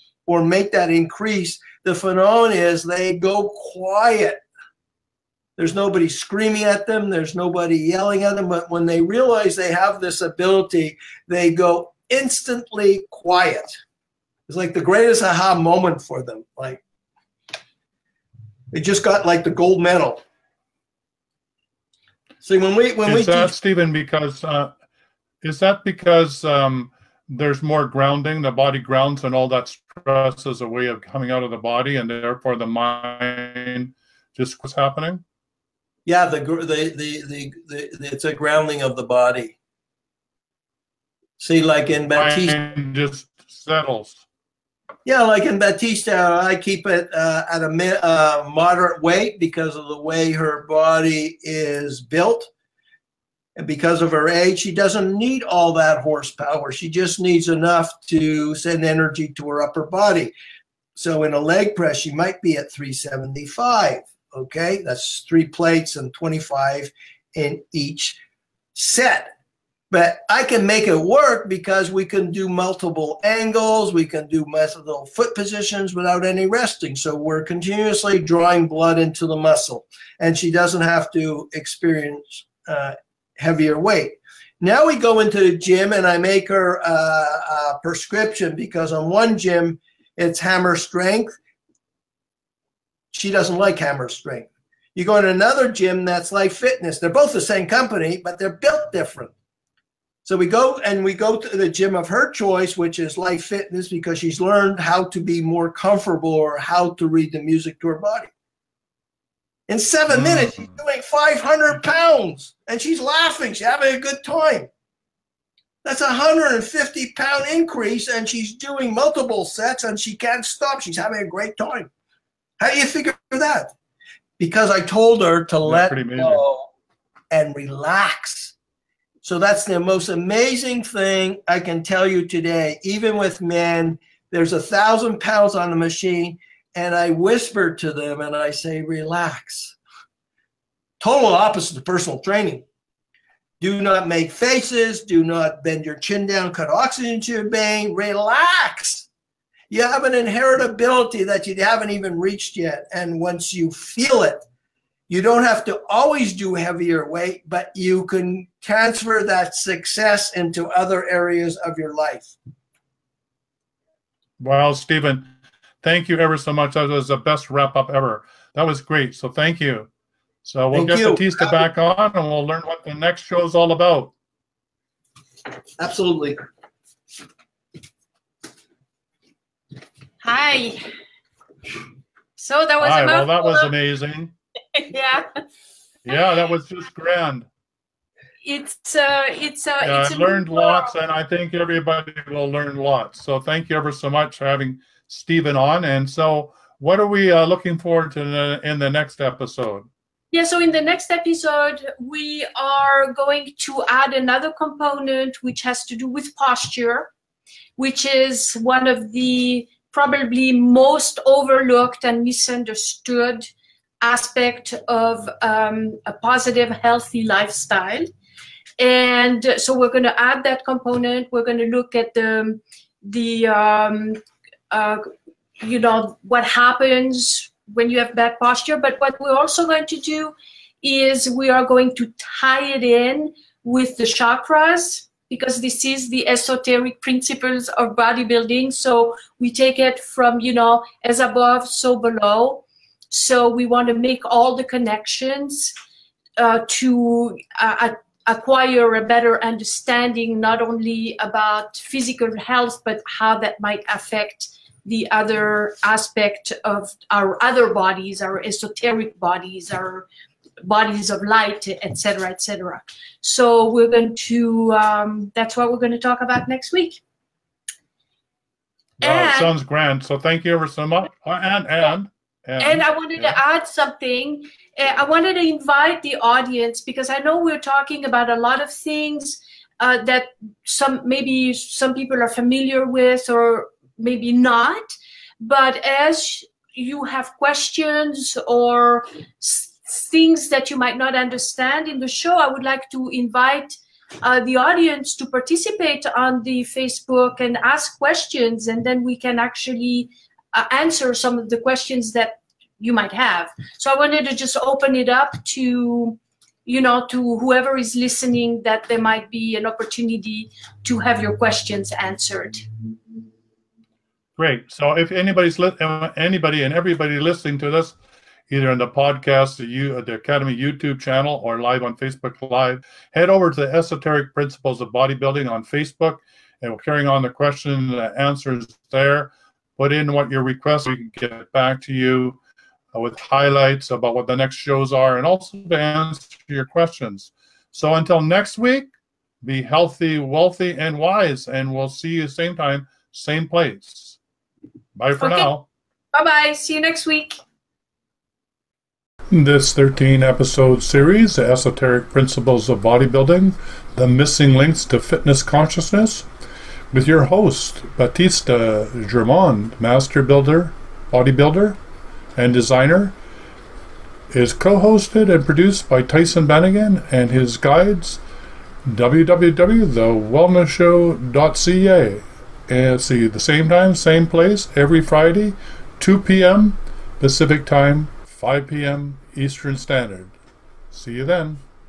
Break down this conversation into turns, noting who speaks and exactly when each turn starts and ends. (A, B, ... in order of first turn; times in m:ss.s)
0:00.3-0:04.4 A
0:05.6-0:13.7 A
0:14.5-0:16.8 A
0:18.7-0:20.2 A
0:22.4-0:23.5 A
0:23.1-0:24.7 B
0:25.4-0:35.2 B
0:36.1-0:39.5 A
0:41.4-0:42.6 A
0:42.1-0:44.2 B
0:45.0-0:52.5 A
0:53.6-1:00.3 A
1:01.0-1:08.2 A
1:08.8-1:09.3 A
1:09.9-1:31.4 A
1:33.1-1:39.3 A
1:40.2-1:48.3 A
1:49.7-1:54.7 A
1:55.8-2:01.9 A
2:02.6-2:03.7 A
2:04.4-2:06.7 A
2:05.6-2:06.4 B
2:07.3-2:08.5 A
2:09.2-2:19.8 A
2:21.0-2:22.6 A
2:23.6-2:29.1 A
2:29.7-2:34.4 A
2:35.1-2:42.3 A
2:44.4-2:45.2 B
2:45.8-2:49.9 B
2:50.4-2:54.1 B
2:50.7-2:51.6 A
2:55.8-2:56.4 A
3:00.2-3:00.8 C
3:02.4-3:03.7 C
3:02.8-3:04.3 B
3:04.8-3:05.3 C
3:06.1-3:07.5 B
3:08.4-3:10.9 C
3:09.8-3:19.9 B
3:20.3-3:27.1 C
3:27.8-3:33.5 C
3:34.0-3:38.1 C
3:38.8-3:44.2 C
3:44.7-3:45.0 C
3:45.6-4:05.7 C
4:06.4-4:20.1 C
4:20.6-4:27.0 C
4:29.0-4:33.4 B
4:29.0-4:29.5 C
4:32.6-5:12.7 C
5:14.4-5:18.0 B
5:18.5-5:32.4 B
5:32.9-5:38.9 B
5:39.4-5:44.2 B
5:45.0-5:45.7 B
5:45.2-5:45.5 C
5:46.1-5:47.4 C
5:49.3-5:56.3 B
5:56.9-6:01.8 B
6:02.4-6:03.1 B
6:04.3-6:08.2 B
6:08.9-6:20.4 B
6:20.9-6:21.6 B